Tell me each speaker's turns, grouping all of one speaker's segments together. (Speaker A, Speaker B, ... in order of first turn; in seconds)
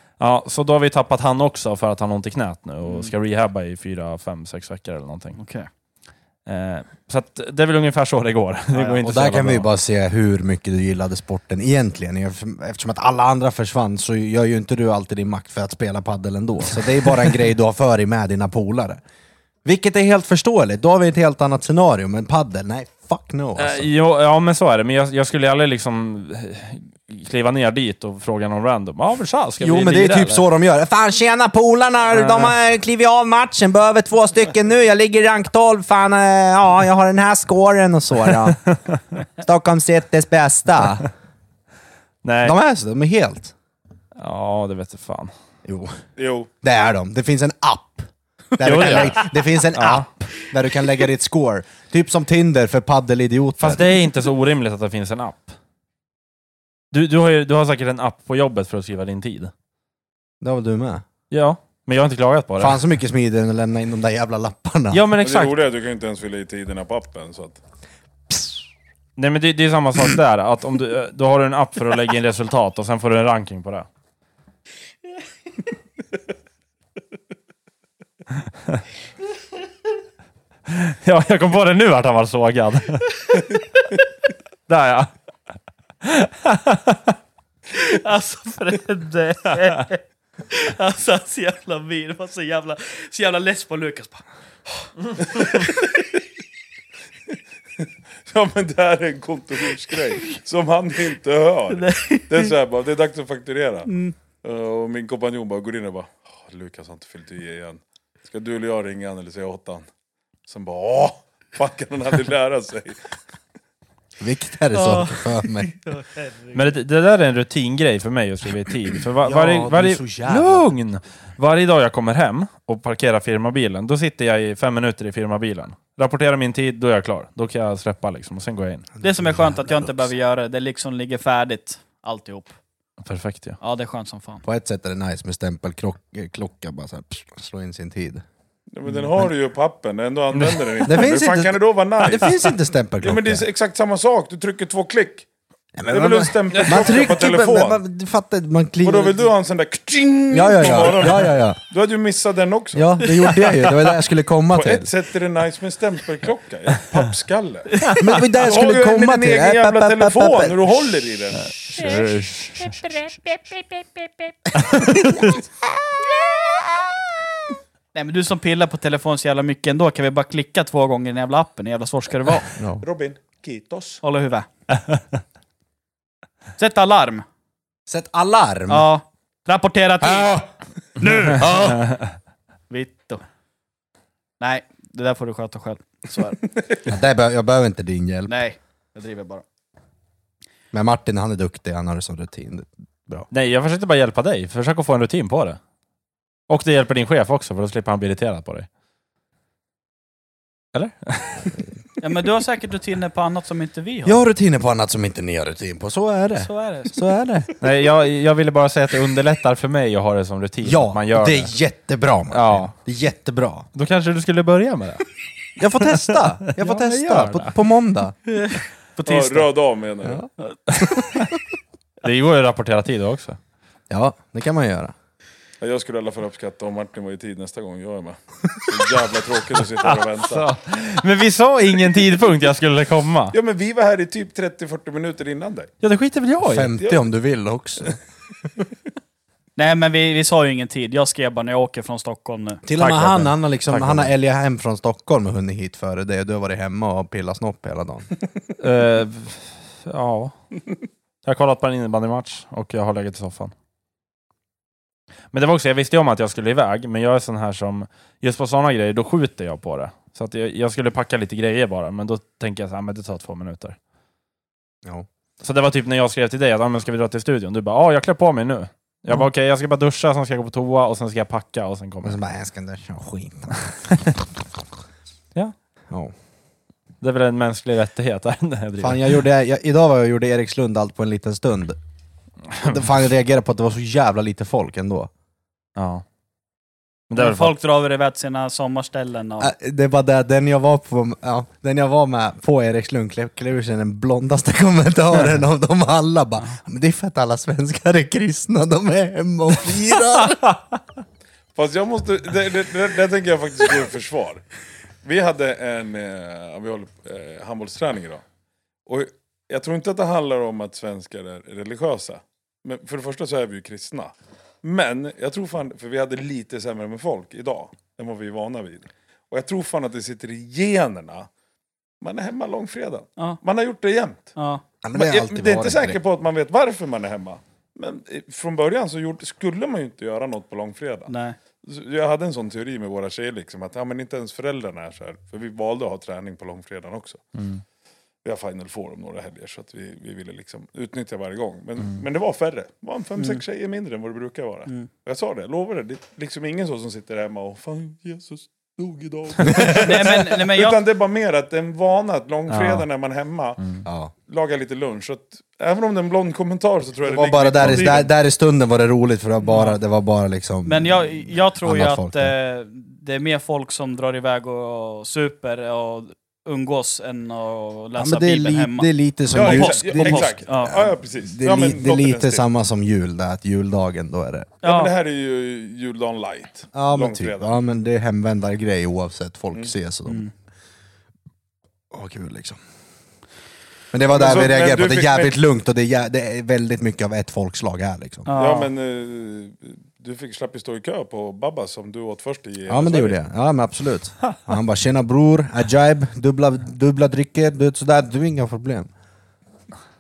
Speaker A: 0.2-5.4, 6.5-9.7, 23.6-30.4, 32.2-32.5, 42.2-42.6, 44.2-45.3, 48.6-50.1, 53.6-55.5, 56.9-59.5, 61.3-62.8, 64.9-65.6, 69.2-73.9, 80.7-83.4, 84.7-85.1, 86.0-87.2, 116.5-128.9, 133.0-133.6, 140.3-140.9, 146.5-146.9, 161.4-162.8, 164.6-165.1, 193.3-195.6, 196.5-198.7, 200.7-201.6, 207.6-211.5, 212.3-212.7, 213.7-215.0, 216.1-217.6, 220.7-221.3, 222.0-223.4, 229.8-233.3, 235.8-236.7, 243.7-244.1, 248.6-250.3, 251.2-253.5, 255.3-263.8, 265.4-272.2, 277.0-279.2, 285.8-286.0, 287.1-287.6, 337.4-337.6, 352.5-352.9, 353.6-353.9
Speaker B: 2.8-3.1, 5.4-5.7, 8.7-9.0, 87.7-94.2, 95.2-95.7, 101.7-102.5, 103.9-104.2, 114.7-116.7, 129.0-132.6, 133.6-134.4, 162.7-163.4, 167.9-172.5, 174.0-174.5, 176.6-177.2, 178.7-180.5, 181.0-181.8, 182.7-183.2, 184.4-186.5, 188.3-189.4, 202.0-204.2, 206.4-207.0, 218.3-219.5, 220.4-220.8, 239.6-243.2, 287.1-289.5, 324.4-324.6, 331.1-331.4, 343.2-343.4, 349.6-350.8, 359.4-359.8, 360.6-370.8, 374.6-374.9, 388.3-388.7
Speaker C: 9.0-19.0, 19.6-23.9, 29.6-38.6, 39.4-41.1, 42.4-43.5, 45.6-46.0, 46.6-53.9, 60.4-61.0, 62.6-65.0, 114.2-115.7, 119.2-120.7, 129.0-129.9, 134.4-138.2, 140.8-143.4, 145.8-149.3, 150.3-151.6, 152.7-154.9, 158.0-160.8, 164.8-165.2, 172.6-172.8, 177.9-178.9, 181.4-181.8, 186.9-188.3, 190.7-193.3, 204.1-207.5, 210.6-213.7, 215.6-218.2, 223.9-224.9, 236.4-238.0, 242.7-248.1, 272.0-273.8, 278.8-281.8, 282.6-285.1, 289.4-300.5, 324.8-326.0, 349.4-350.1, 353.9-354.1, 357.0-362.3, 368.0-374.5, 376.7-380.2, 381.9-382.6, 383.9-388.3, 392.7-398.9
Speaker D: 46.2-46.5, 65.2-67.6, 95.4-95.7, 97.8-103.9, 104.4-109.9, 110.5-113.0, 138.7-145.3, 145.9-147.8, 148.8-152.9, 154.5-157.9, 158.4-161.5, 172.8-174.0, 219.1-220.3, 225.6-230.5, 233.3-235.7, 301.6-304.4, 305.0-308.2, 308.9-321.3, 322.0-324.3, 324.9-331.1, 331.6-337.2, 338.2-353.6, 354.3-358.1, 369.3-372.4, 374.6-377.5, 384.1-385.4, 388.4-393.2